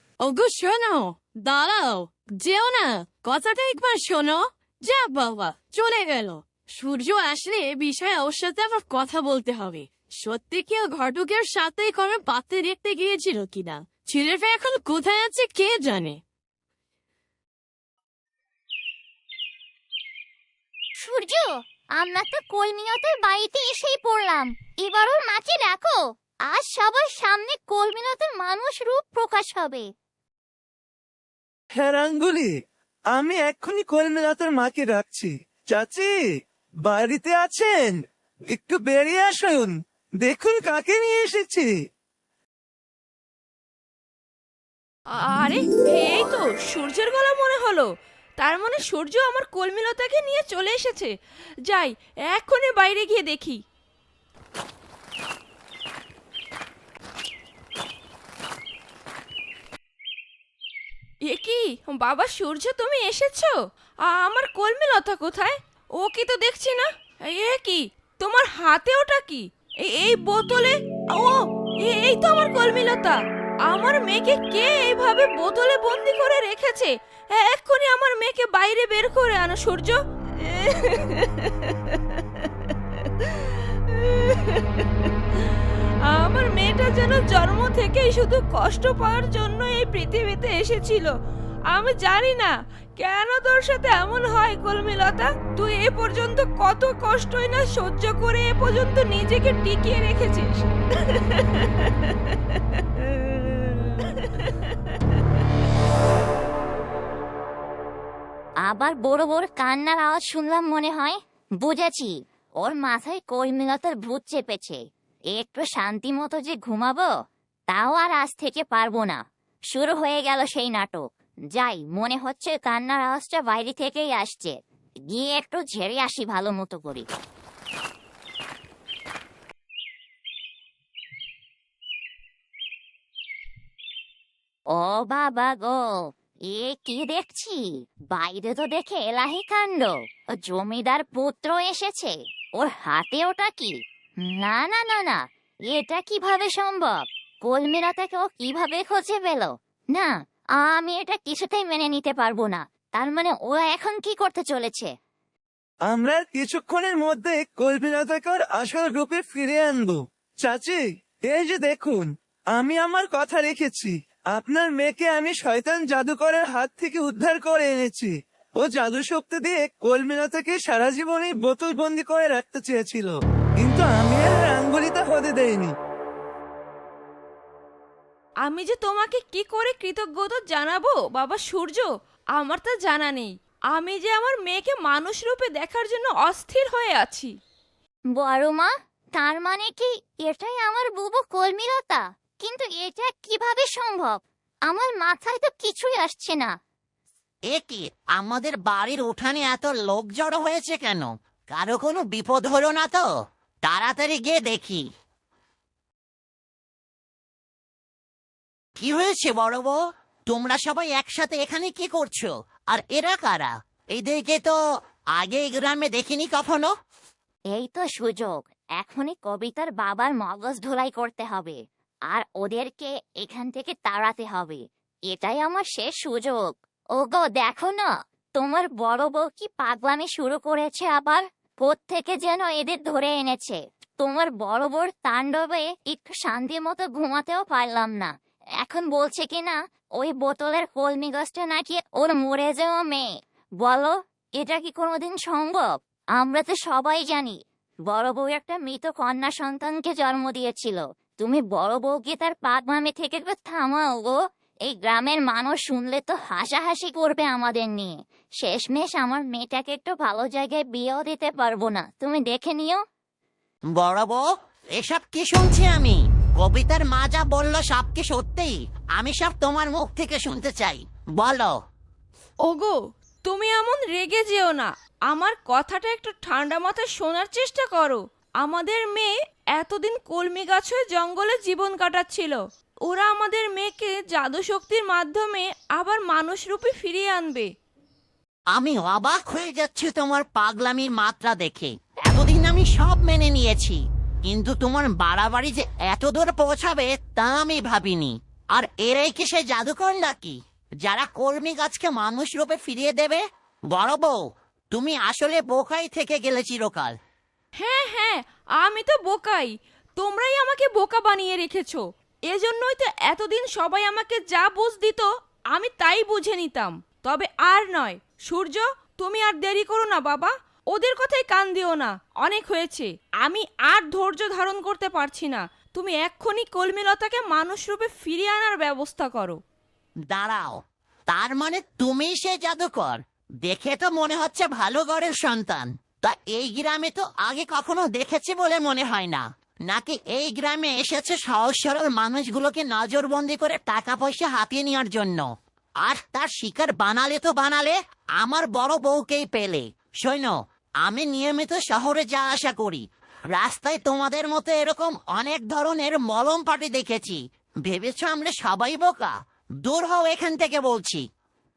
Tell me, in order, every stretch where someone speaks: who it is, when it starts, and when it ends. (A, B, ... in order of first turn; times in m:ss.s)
0:00.2-0:16.2 A
0:21.0-0:29.9 B
0:31.8-0:32.5 C
0:33.1-0:36.1 C
0:36.8-0:38.0 C
0:38.5-0:41.7 C
0:45.1-0:47.9 D
0:48.4-0:51.1 D
0:51.7-0:53.6 D
1:01.2-1:31.1 D
1:31.7-1:42.6 D
1:43.2-1:44.6 D
1:48.6-2:07.1 B
2:14.7-2:34.9 B
2:35.9-2:55.7 C
2:58.4-3:07.3 D
3:08.1-3:16.6 B
3:17.5-3:23.1 E
3:23.6-3:24.9 E
3:28.8-3:34.6 E
3:35.1-3:36.7 E
3:37.5-3:41.6 B
3:42.1-4:22.8 B
4:23.7-4:31.6 E
4:32.4-4:47.5 D
4:48.5-5:07.0 E
5:07.6-5:29.4 D
5:30.1-6:01.1 E